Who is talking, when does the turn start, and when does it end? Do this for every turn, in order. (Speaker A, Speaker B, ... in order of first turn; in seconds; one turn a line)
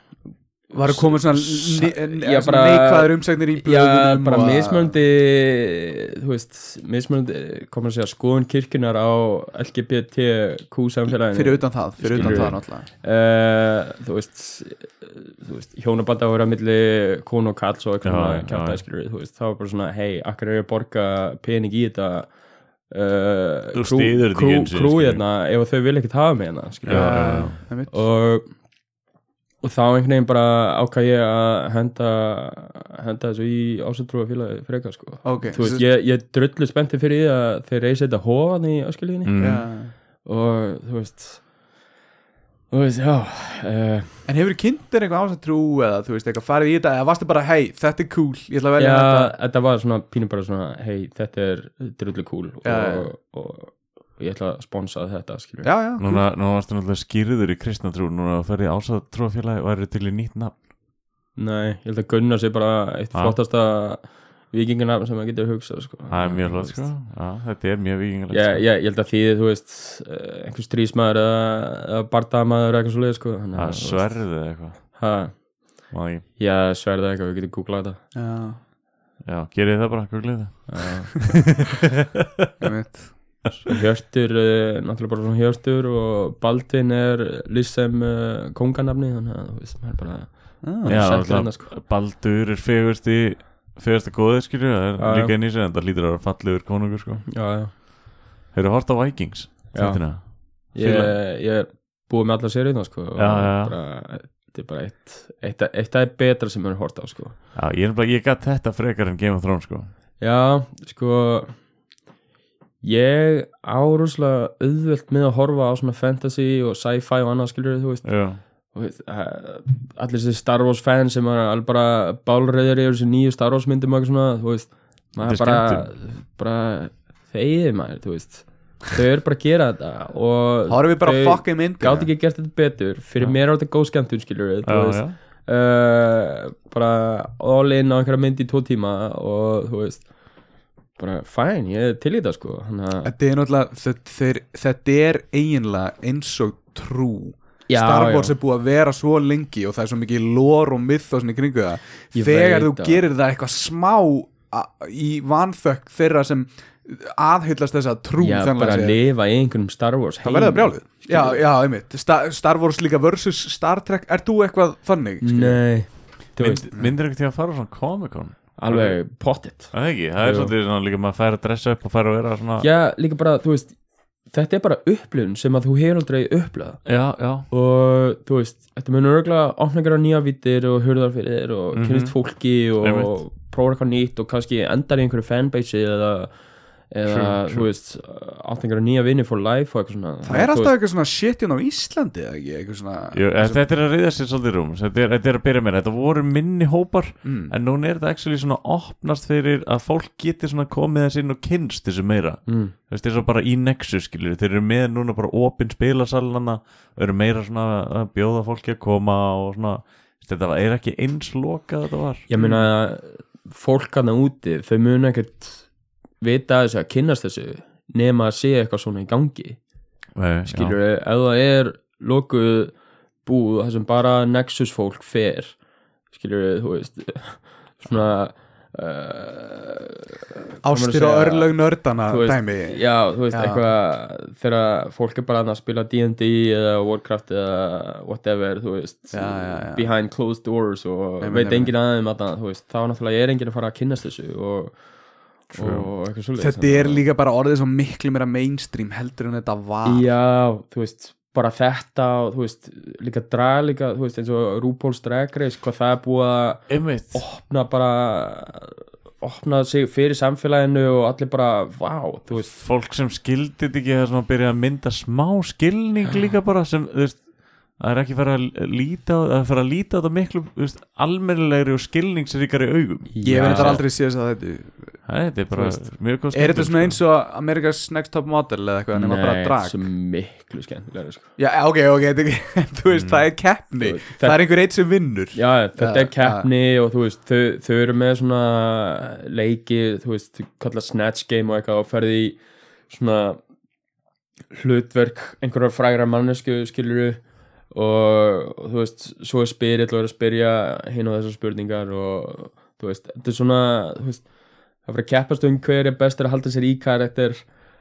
Speaker A: 0.7-5.0
Speaker B: 0.8-22.3
Speaker A: 11.3-12.9
Speaker C: 12.2-12.5
Speaker C: 18.0-18.8
Speaker B: 22.9-28.5
Speaker C: 23.7-25.2
Speaker A: 26.9-27.9
Speaker C: 26.9-27.6
Speaker B: 29.6-39.5
Speaker A: 35.2-35.9
Speaker C: 39.2-39.6
Speaker A: 39.4-39.9
Speaker B: 40.2-41.4
Speaker B: 42.7-44.2
Speaker A: 44.3-49.3
Speaker B: 48.8-55.7
Speaker A: 52.6-53.1
Speaker A: 55.6-56.2
Speaker C: 56.0-60.5
Speaker B: 61.4-66.9
Speaker C: 66.1-68.6
Speaker B: 68.3-75.5
Speaker C: 73.6-75.0
Speaker C: 75.9-76.2
Speaker B: 76.4-78.0
Speaker A: 78.1-78.6
Speaker C: 79.2-82.2
Speaker B: 80.7-81.1
Speaker A: 82.6-83.2
Speaker B: 83.6-91.7
Speaker A: 90.6-91.2
Speaker C: 90.9-97.8
Speaker B: 95.0-95.3
Speaker B: 97.3-97.7
Speaker C: 98.5-101.2
Speaker B: 99.7-107.4
Speaker C: 103.2-103.8
Speaker C: 107.5-109.9
Speaker B: 110.2-111.6
Speaker B: 112.8-118.1
Speaker C: 118.0-118.4
Speaker B: 118.7-140.1
Speaker C: 125.2-125.9
Speaker A: 130.7-132.1
Speaker C: 134.7-135.2
Speaker B: 141.0-143.1
Speaker A: 143.0-159.0
Speaker B: 147.7-148.3
Speaker B: 152.1-153.1
Speaker B: 158.2-161.4
Speaker A: 160.2-165.7
Speaker B: 165.2-166.7
Speaker C: 166.4-172.7
Speaker B: 168.6-170.5
Speaker B: 172.6-173.8
Speaker B: 174.3-176.8
Speaker C: 176.8-177.5
Speaker B: 177.5-186.4
Speaker C: 181.7-182.2
Speaker C: 182.8-183.2
Speaker B: 186.9-190.7
Speaker C: 187.1-187.7
Speaker A: 190.2-193.6
Speaker C: 193.1-212.2
Speaker A: 197.2-197.5
Speaker B: 202.5-202.7
Speaker B: 212.3-215.7
Speaker A: 212.4-212.6
Speaker B: 216.2-219.6
Speaker C: 220.2-220.8
Speaker B: 220.5-225.6
Speaker B: 226.1-231.5
Speaker A: 230.6-233.6
Speaker B: 232.1-244.8
Speaker A: 239.1-239.9
Speaker A: 241.2-241.7
Speaker B: 245.5-247.1
Speaker C: 245.6-245.9
Speaker A: 246.4-250.1
Speaker B: 249.8-262.5
Speaker C: 256.7-257.2
Speaker C: 262.3-273.8
Speaker B: 273.1-273.8
Speaker A: 273.2-275.0
Speaker C: 275.1-277.0
Speaker B: 275.6-275.8
Speaker A: 276.3-279.8
Speaker B: 278.9-281.3
Speaker A: 281.4-286.5
Speaker C: 282.9-283.2
Speaker B: 283.8-284.5
Speaker B: 285.3-293.4
Speaker B: 294.5-297.2
Speaker B: 297.7-304.3
Speaker B: 304.9-307.5